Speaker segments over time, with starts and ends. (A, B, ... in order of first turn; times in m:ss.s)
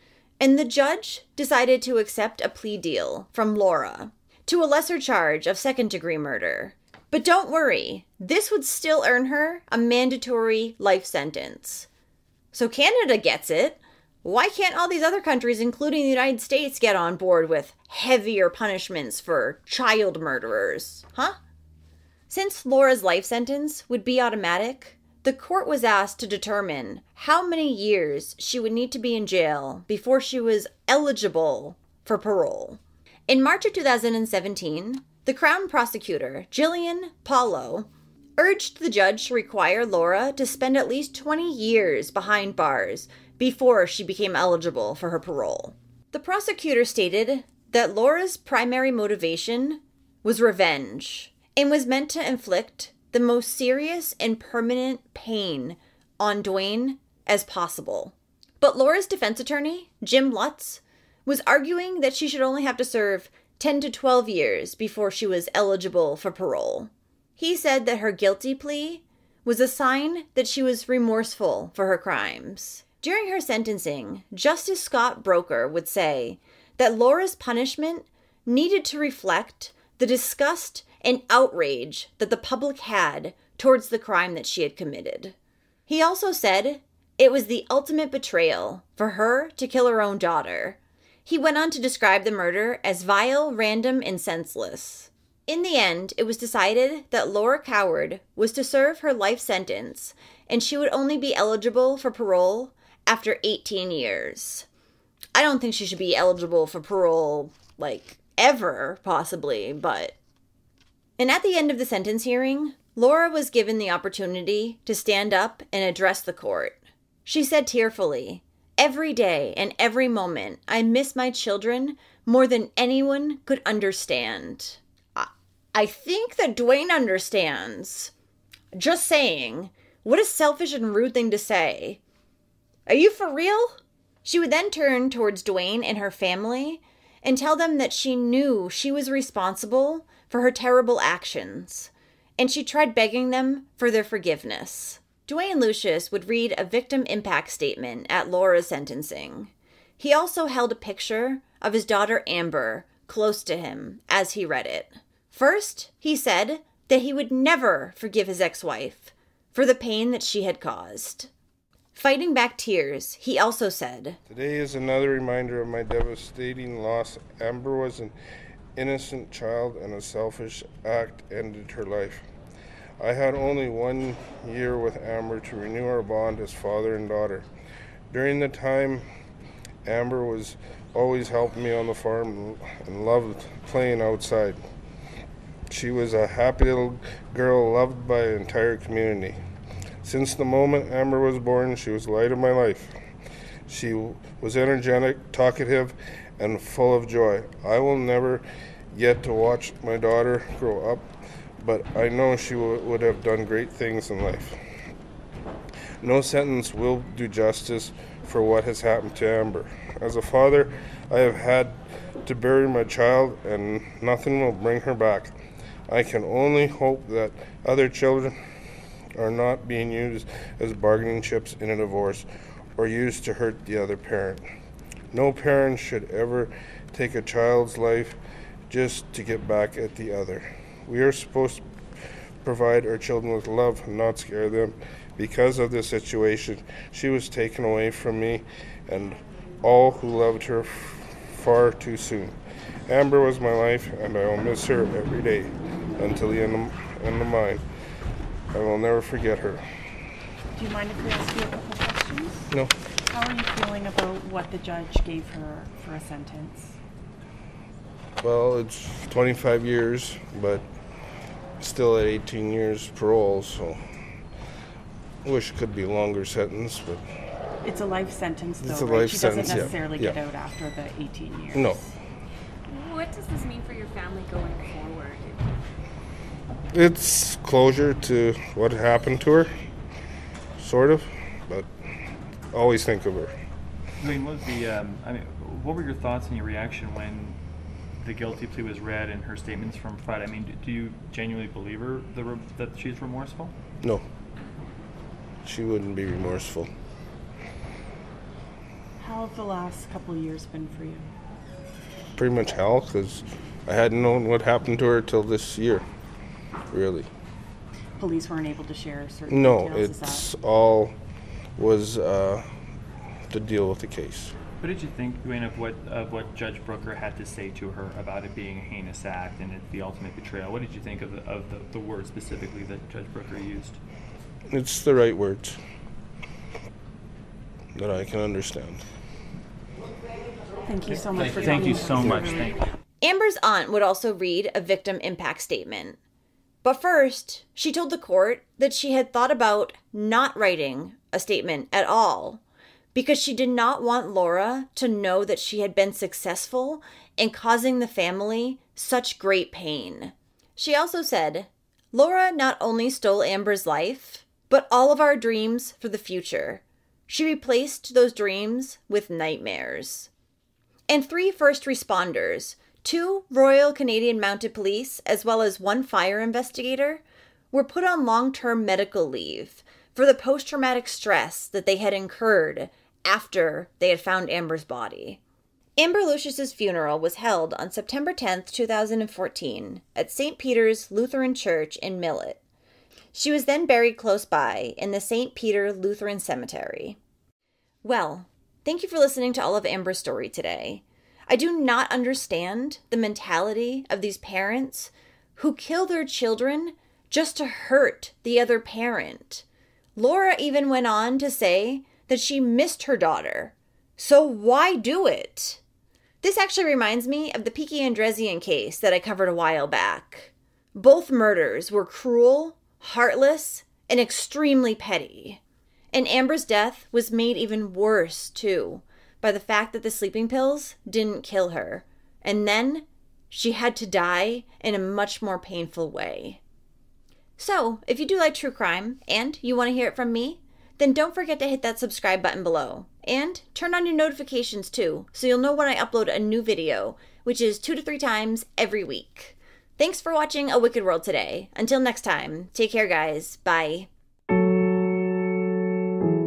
0:00.4-0:11.9 A
0:12.5-0:21.4 A
0:22.3-1:25.3 A
1:25.9-1:44.7 A
1:45.3-1:50.2 A
1:51.2-2:08.1 A
2:08.7-2:12.0 A
2:12.9-2:41.3 A
2:41.9-2:44.2 A
2:44.3-2:48.1 B
2:48.8-2:52.2 B
2:53.0-2:57.5 B
2:58.1-2:59.0 B
2:59.8-3:04.6 B
3:05.7-3:09.4 B
3:10.0-3:12.9 B
3:13.7-3:21.1 B
3:21.6-3:24.6 B
3:26.0-3:35.3 B
3:35.9-3:38.4 B
3:39.2-3:42.2 B
3:42.8-3:44.4 B
3:45.1-3:48.2 B
3:48.7-3:51.6 B
3:52.4-4:07.6 B
4:08.5-4:09.6 B
4:10.5-4:12.5 C
4:13.1-4:16.7 C
4:18.2-4:20.6 B
4:21.6-4:23.8 B
4:25.2-4:27.0 B
4:27.6-4:31.8 C
4:28.6-4:30.2 B
4:31.5-4:31.8 B
4:32.7-4:35.4 D
4:36.7-4:39.5 B
4:40.6-4:41.7 B
4:42.5-4:43.3 B
4:44.0-4:47.4 E
4:48.0-4:53.5 E
4:55.4-4:56.7 B
4:59.0-5:01.1 C
5:02.2-5:05.8 B
5:06.7-5:07.1 B
5:08.0-5:10.2 C
5:09.3-5:10.9 B
5:11.6-5:12.5 B
5:13.3-5:14.3 B
5:14.6-5:23.8 E
5:24.5-5:25.6 B
5:27.7-5:28.8 B
5:30.6-5:32.6 C
5:30.9-5:32.5 E
5:33.0-5:36.0 A
5:36.6-5:42.4 A
5:42.9-6:00.1 A
6:00.9-6:15.2 A
6:15.8-6:22.4 A
6:23.1-6:27.0 A
6:27.8-6:39.4 A
6:40.0-6:45.6 A
6:46.2-6:55.4 A
6:55.9-7:06.4 A
7:07.4-7:23.9 A